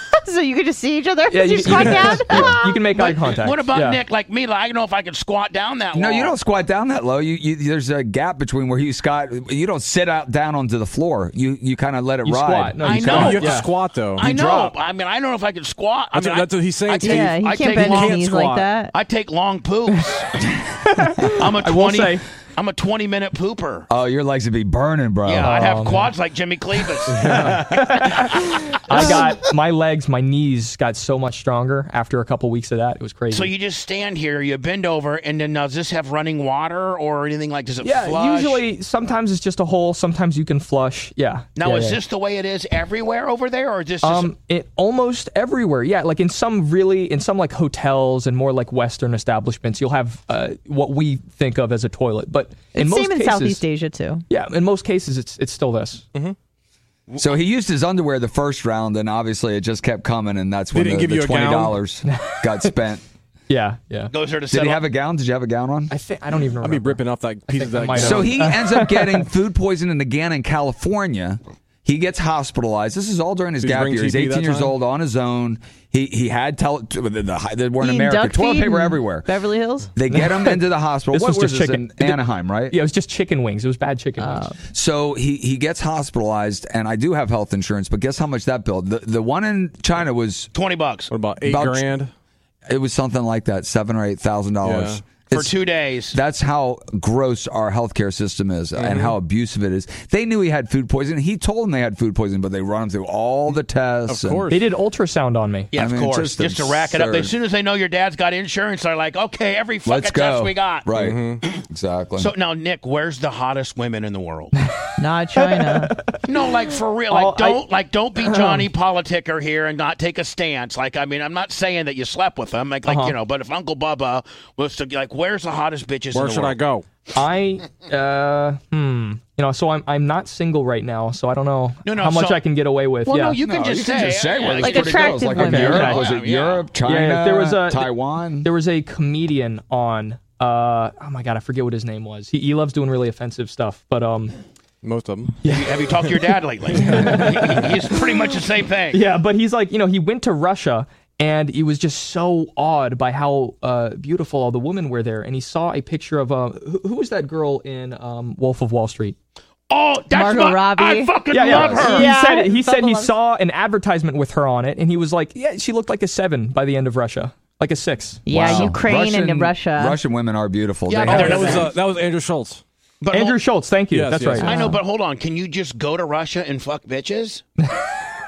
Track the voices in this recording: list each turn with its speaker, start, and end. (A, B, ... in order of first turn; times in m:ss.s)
0:00.2-0:02.8 A
0:01.3-0:04.0 B
0:01.6-0:02.4 C
0:03.0-0:06.3 D
0:05.9-0:13.4 E
0:12.2-0:13.7 B
0:12.8-0:13.4 D
0:13.1-0:14.2 C
0:14.2-0:14.7 E
0:14.2-0:18.3 D
0:16.1-0:18.7 C
0:17.0-0:18.9 A
0:18.9-0:20.4 D
0:21.0-0:22.2 B
0:21.4-0:23.9 D
0:23.9-0:25.6 E
0:25.2-0:27.3 D
0:25.4-0:26.1 B
0:27.1-0:27.8 C
0:27.3-0:28.1 B
0:28.9-0:33.5 B
0:33.3-0:38.6 D
0:37.8-0:42.0 B
0:41.6-0:44.3 D
0:44.0-0:53.6 B
0:52.7-0:54.2 A
0:54.3-0:56.0 B
0:57.2-1:03.0 E
1:00.7-1:01.8 C
1:02.1-1:02.7 B
1:03.5-1:04.1 B
1:04.1-1:04.8 D
1:04.5-1:05.9 E
1:05.9-1:09.3 B
1:06.6-1:08.4 C
1:08.0-1:19.3 E
1:13.6-1:14.7 C
1:17.8-1:19.9 A
1:19.9-1:22.8 E
1:20.1-1:20.6 B
1:21.1-1:24.5 B
1:24.2-1:24.6 A
1:24.7-1:30.5 E
1:30.5-1:31.1 D
1:31.1-1:32.1 C
1:31.4-1:31.8 E
1:32.7-1:35.5 E
1:34.6-1:35.0 C
1:35.3-1:36.2 D
1:36.1-1:44.4 E
1:38.8-1:39.1 C
1:44.1-1:44.6 C
1:44.5-1:45.7 B
1:45.7-1:50.9 D
1:45.7-1:47.3 E
1:49.8-1:52.3 E
1:50.9-1:51.4 C
1:52.2-1:54.5 D
1:55.0-1:55.9 A
1:55.5-1:55.9 B
1:56.3-2:06.6 D
1:57.1-1:57.6 B
1:58.2-1:58.7 B
2:02.9-2:03.1 B
2:06.1-2:06.8 C
2:07.1-2:13.4 B
2:11.8-2:12.4 D
2:13.1-2:16.6 D
2:13.4-2:18.5 E
2:14.6-2:16.0 A
2:15.3-2:16.0 B
2:16.8-2:17.9 B
2:18.4-2:24.4 B
2:24.8-2:25.3 C
2:25.5-2:29.0 D
2:26.8-2:27.6 B
2:28.9-2:39.2 B
2:39.7-2:42.1 D
2:40.1-2:43.1 A
2:41.3-2:48.8 B
2:48.2-2:50.0 A
2:48.3-2:51.6 E
2:50.9-2:51.7 D
2:51.1-2:52.6 C
2:53.0-2:53.4 D
2:53.1-2:54.5 B
2:53.9-2:54.6 C
2:54.4-2:54.8 A
2:54.4-2:57.4 D